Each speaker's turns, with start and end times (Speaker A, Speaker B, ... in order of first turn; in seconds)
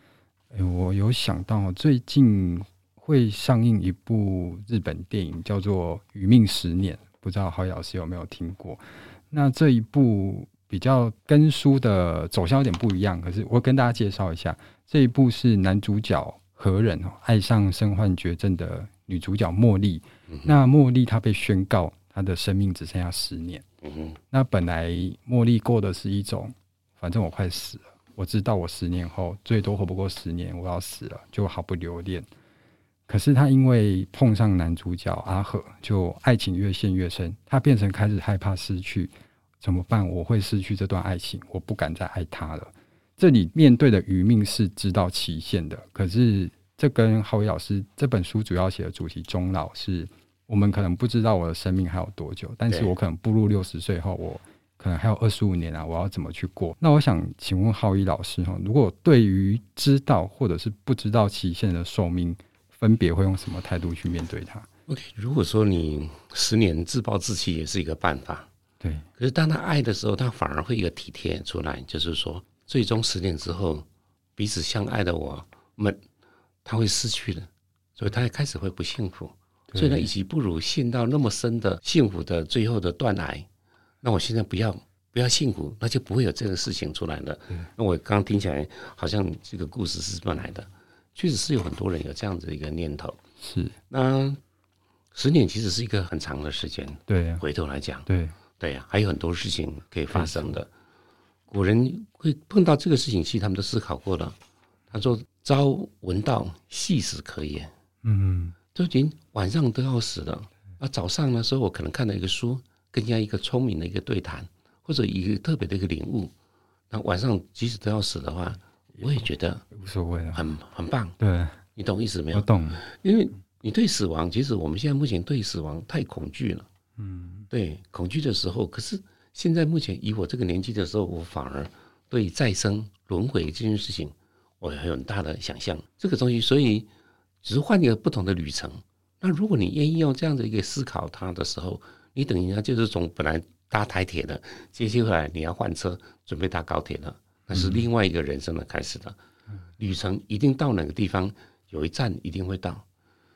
Speaker A: 0.5-23.6, 24.3-32.3, 33.1-64.7, 68.8-69.0, 79.7-80.1, 93.4-93.8, 97.1-97.4, 98.1-98.3, 100.1-100.5, 108.0-108.5, 119.7-120.4, 121.2-121.6, 122.3-122.8, 127.0-127.5, 147.5-147.8
Speaker B: 20.3-20.5, 23.8-24.2, 64.9-68.5, 69.2-73.8, 74.4-76.0, 76.6-83.5, 84.0-93.2, 93.9-94.4, 95.1-100.7, 101.5-104.4, 104.9-107.7, 108.7-116.3, 116.9-119.7, 120.3-121.2, 121.7-126.7, 127.5-136.9, 137.4-149.2, 149.8-152.8